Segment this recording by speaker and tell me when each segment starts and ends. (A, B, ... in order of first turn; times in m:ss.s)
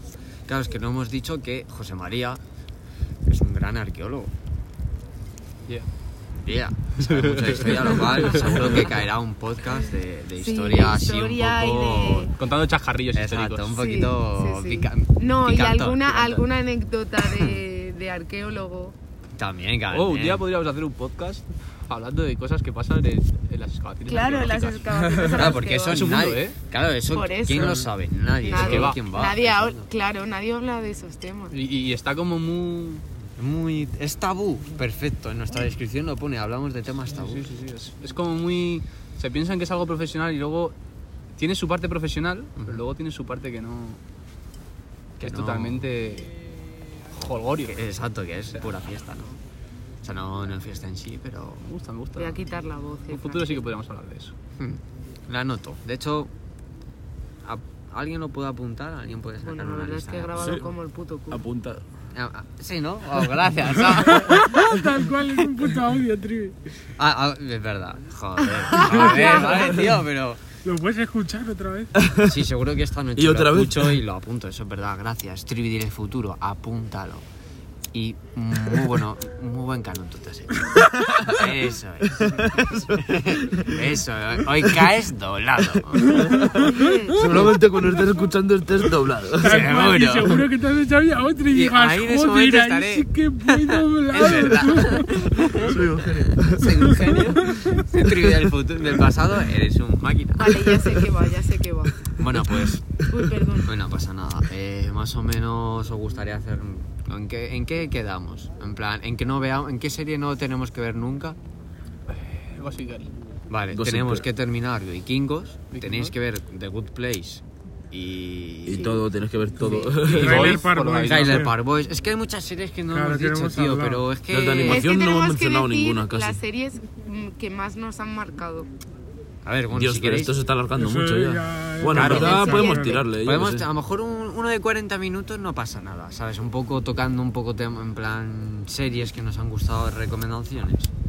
0:00.5-0:02.4 A
0:03.3-0:04.3 A
0:06.4-0:12.3 A
0:07.0-0:08.9 B
0:10.4-0:12.3 C
0:12.4-0:13.8 B
0:13.1-0:16.4 A
0:13.8-0:19.0 C
0:17.2-0:17.6 A
0:19.4-0:20.4 A
0:19.9-0:26.6 B
0:24.1-0:26.0 C
0:25.3-0:29.9 A
0:27.1-0:27.8 C
0:28.4-0:31.6 C
0:28.5-0:29.0 B
0:31.5-0:33.0 B
0:33.4-0:37.5 A
0:37.1-0:40.7 B
0:41.4-0:44.0 B
0:42.6-0:42.8 A
0:45.2-0:45.9 A
0:45.2-0:46.3 B
0:47.1-0:47.8 B
0:47.7-0:49.4 A
0:50.0-0:51.7 A
0:51.6-0:52.4 B
0:52.2-0:53.6 C
0:53.1-0:54.3 B
0:54.6-0:56.3 A
0:57.4-1:00.6 A
0:59.4-1:01.4 C
1:00.4-1:00.7 D
1:01.3-1:01.8 D
1:02.1-1:04.8 A
1:04.1-1:06.6 E
1:07.0-1:10.4 A
1:08.6-1:09.7 C
1:08.7-1:09.8 E
1:10.6-1:12.0 E
1:12.0-1:12.4 D
1:12.2-1:17.2 A
1:13.2-1:14.0 D
1:17.9-1:27.6 A
1:22.1-1:22.8 D
1:25.9-1:29.7 D
1:26.7-1:27.1 C
1:29.4-1:35.8 E
1:29.4-1:30.4 A
1:31.5-1:40.9 A
1:35.4-1:37.1 D
1:36.7-1:37.8 E
1:40.4-1:42.2 C
1:42.2-1:42.9 A
1:43.1-1:43.7 C
1:43.6-1:51.4 A
1:52.1-1:53.1 B
1:53.5-1:59.0 A
1:53.7-1:54.3 D
1:55.7-1:56.1 B
1:58.6-2:00.6 D
1:58.7-1:59.0 C
1:59.6-1:59.9 C
2:00.1-2:01.4 B
2:00.1-2:01.6 E
2:01.0-2:04.9 A
2:02.9-2:04.1 E
2:04.3-2:06.4 D
2:04.6-2:08.7 C
2:09.4-2:10.4 A
2:09.7-2:13.7 D
2:10.8-2:13.0 E
2:11.9-2:20.9 A
2:12.0-2:13.0 C